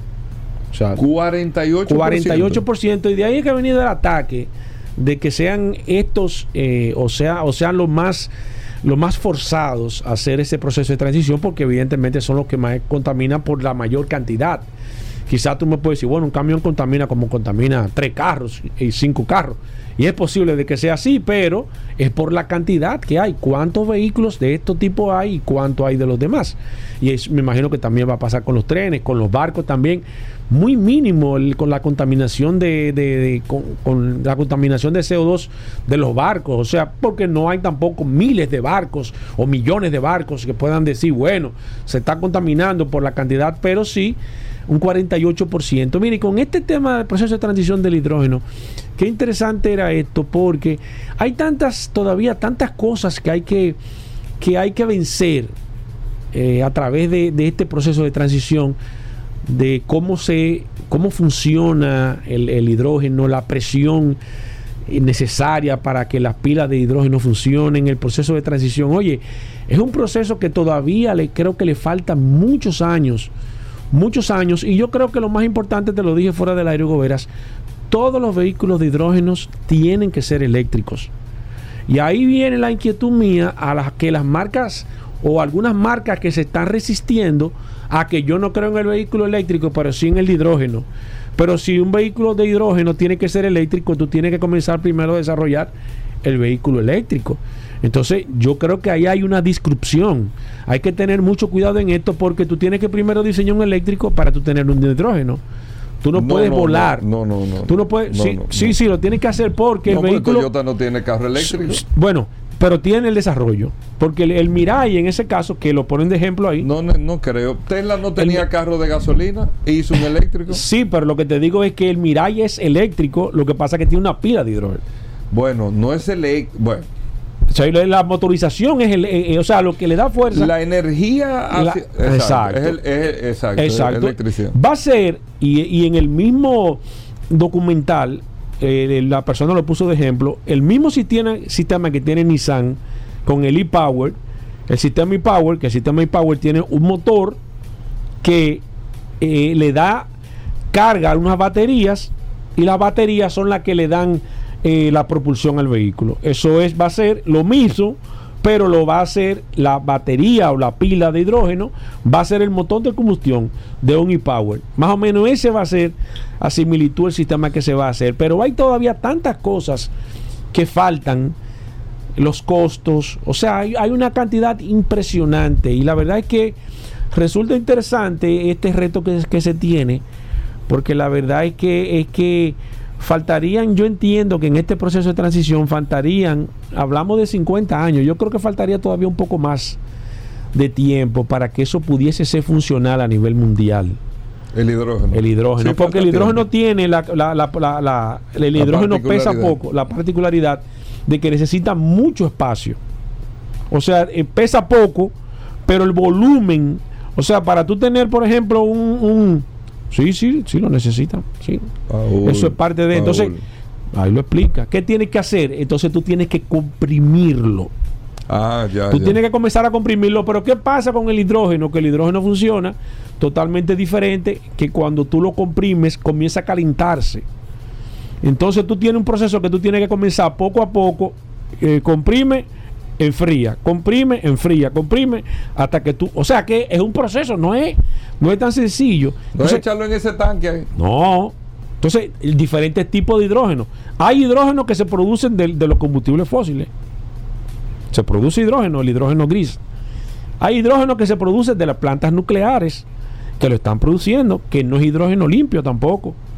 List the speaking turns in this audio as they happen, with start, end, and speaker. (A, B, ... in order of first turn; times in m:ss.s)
0:00.7-0:01.0 A
0:01.0-0:02.6 B
0:01.8-0:08.3 A
0:08.8-0:14.7 A
0:15.3-0:44.2 A
0:44.7-0:48.4 A
0:49.0-0:53.8 A
0:54.4-0:55.5 A
0:56.3-0:58.8 A
0:59.4-1:04.2 A
1:04.9-1:13.3 A
1:13.9-1:17.3 A
1:17.9-1:21.1 A
1:21.9-1:35.7 A
1:36.2-1:45.4 A
1:46.0-1:47.0 A
1:46.1-1:48.8 B
1:47.7-1:50.5 A
1:49.8-1:51.8 B
1:51.4-1:56.7 A
1:56.6-2:00.6 B
1:58.2-1:58.5 A
2:00.5-2:04.8 A
2:05.3-2:06.9 B
2:07.5-2:10.5 A
2:10.3-2:14.6 B
2:11.5-2:12.8 A
2:13.6-2:27.4 A
2:28.2-2:28.6 A
2:29.2-2:30.1 A
2:30.7-2:49.9 A
2:50.5-2:51.4 A
2:52.2-2:56.6 A
2:57.1-3:00.0 A
3:00.7-3:09.8 A
3:10.5-3:14.0 A
3:14.5-3:16.4 B
3:15.1-3:22.8 A
3:18.5-3:19.6 B
3:23.7-3:25.1 A
3:25.6-3:31.7 A
3:31.9-3:33.4 B
3:32.2-3:33.3 A
3:33.9-3:37.7 A
3:38.3-3:39.2 B
3:38.9-3:47.2 A
3:48.2-3:52.5 A
3:53.0-3:59.6 A
3:59.3-4:00.7 B
4:00.8-4:06.7 A
4:07.9-4:09.6 A
4:10.4-4:12.8 A
4:13.4-4:16.2 A